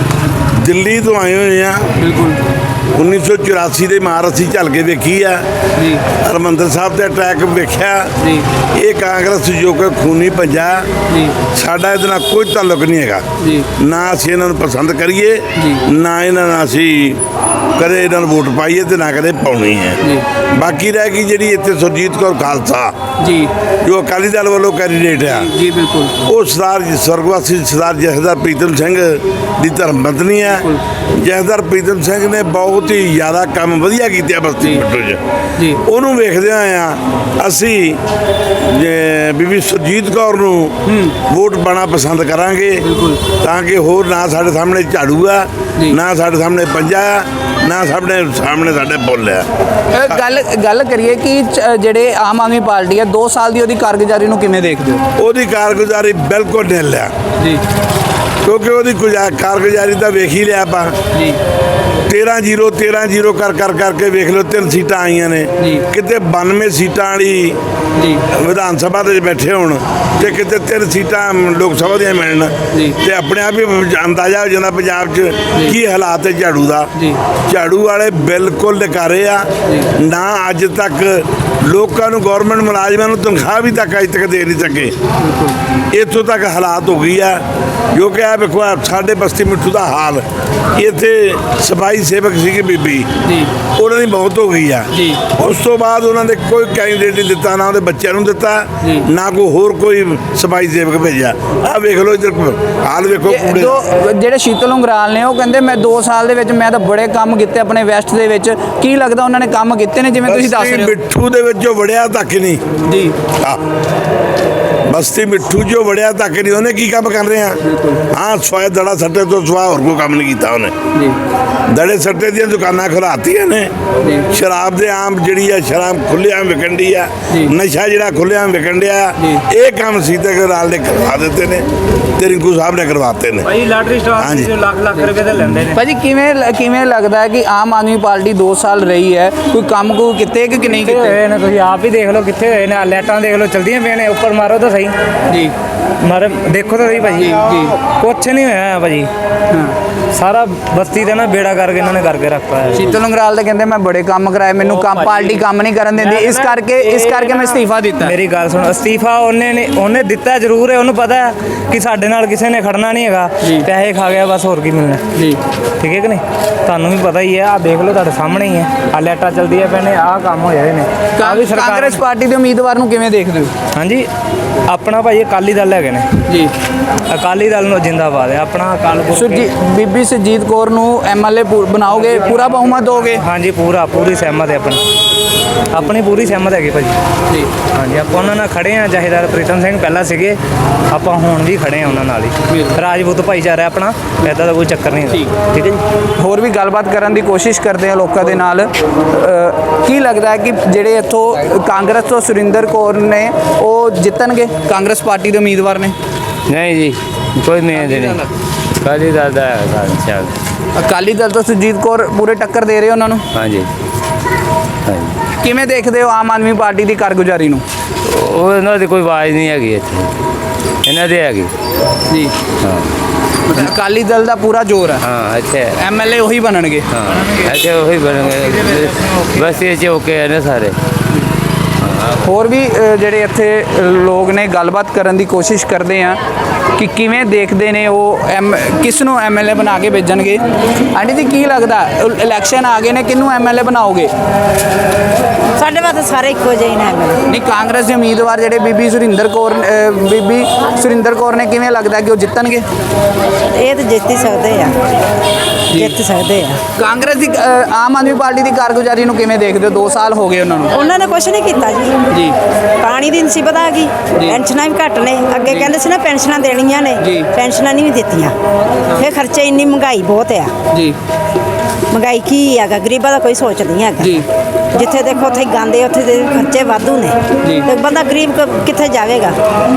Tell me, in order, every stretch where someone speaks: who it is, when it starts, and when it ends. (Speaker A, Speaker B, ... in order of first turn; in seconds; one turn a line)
Speaker A: 0.5-1.9
Speaker B: 2.0-2.4
Speaker A: 2.9-5.5
Speaker B: 5.8-6.0
Speaker A: 6.1-8.1
Speaker B: 8.2-8.4
Speaker A: 8.7-10.9
Speaker B: 11.1-11.3
Speaker A: 11.5-13.2
Speaker B: 13.4-13.7
Speaker A: 13.8-17.2
Speaker B: 15.6-15.8
Speaker A: 17.8-22.9
Speaker B: 23.2-23.5
Speaker A: 23.8-25.5
Speaker B: 25.2-26.2
Speaker A: 26.2-35.2
Speaker B: 30.5-30.8
Speaker A: 35.8-38.0
Speaker A: 38.6-49.5
Speaker B: 40.9-41.1
Speaker B: 42.8-43.2
Speaker B: 49.9-55.0
Speaker A: 55.2-57.1
Speaker A: 58.4-60.9
Speaker A: 62.1-67.6
Speaker B: 65.6-65.8
Speaker B: 68.0-68.2
Speaker A: 68.3-76.9
Speaker A: 77.5-84.9
Speaker B: 85.2-85.6
Speaker A: 85.9-87.4
Speaker A: 87.9-90.2
Speaker A: 90.8-93.1
Speaker B: 93.2-93.5
Speaker A: 93.8-103.8
Speaker B: 94.9-95.2
Speaker B: 103.2-111.0
Speaker A: 110.2-112.6
Speaker B: 112.9-113.1
Speaker A: 114.9-117.6
Speaker B: 117.6-118.0
Speaker A: 118.1-120.7
Speaker A: 121.7-123.7
Speaker A: 124.3-131.7
Speaker A: 132.2-133.5
Speaker C: 133.4-135.8
Speaker A: 134.2-134.5
Speaker B: 135.7-141.2
Speaker C: 140.8-144.9
Speaker B: 145.3-145.5
Speaker C: 146.0-149.1
Speaker B: 147.2-147.7
Speaker B: 149.5-149.8
Speaker C: 150.1-152.9
Speaker B: 152.7-158.2
Speaker C: 155.0-155.3
Speaker C: 156.0-165.1
Speaker B: 163.4-163.7
Speaker C: 165.8-172.0
Speaker B: 171.1-173.5
Speaker C: 173.7-174.1
Speaker C: 174.7-176.1
Speaker B: 176.3-176.5
Speaker C: 177.1-179.5
Speaker B: 179.1-183.2
Speaker C: 183.2-184.8
Speaker C: 185.7-187.0
Speaker C: 187.6-190.4
Speaker C: 190.9-195.8
Speaker B: 196.2-205.9
Speaker D: 206.5-208.2
Speaker D: 208.8-210.3
Speaker B: 210.8-213.2
Speaker D: 213.3-213.7
Speaker D: 214.8-215.2
Speaker B: 215.4-217.6
Speaker D: 218.0-220.1
Speaker D: 220.8-221.5
Speaker D: 222.6-222.9
Speaker B: 223.5-225.0
Speaker D: 225.0-225.7
Speaker B: 225.7-226.8
Speaker D: 226.9-230.8
Speaker D: 231.8-232.1
Speaker B: 232.2-236.2
Speaker B: 236.8-240.4
Speaker B: 240.9-244.1
Speaker E: 245.6-247.2
Speaker B: 247.3-252.6
Speaker E: 253.5-254.8
Speaker B: 255.7-256.0
Speaker E: 255.8-256.6
Speaker B: 256.8-260.8
Speaker E: 260.7-262.0
Speaker B: 262.1-262.4
Speaker E: 262.8-268.3
Speaker B: 265.4-265.7
Speaker B: 267.0-267.3
Speaker E: 269.0-270.5
Speaker E: 271.9-274.1
Speaker B: 274.0-274.3
Speaker E: 274.7-279.4
Speaker B: 277.4-277.7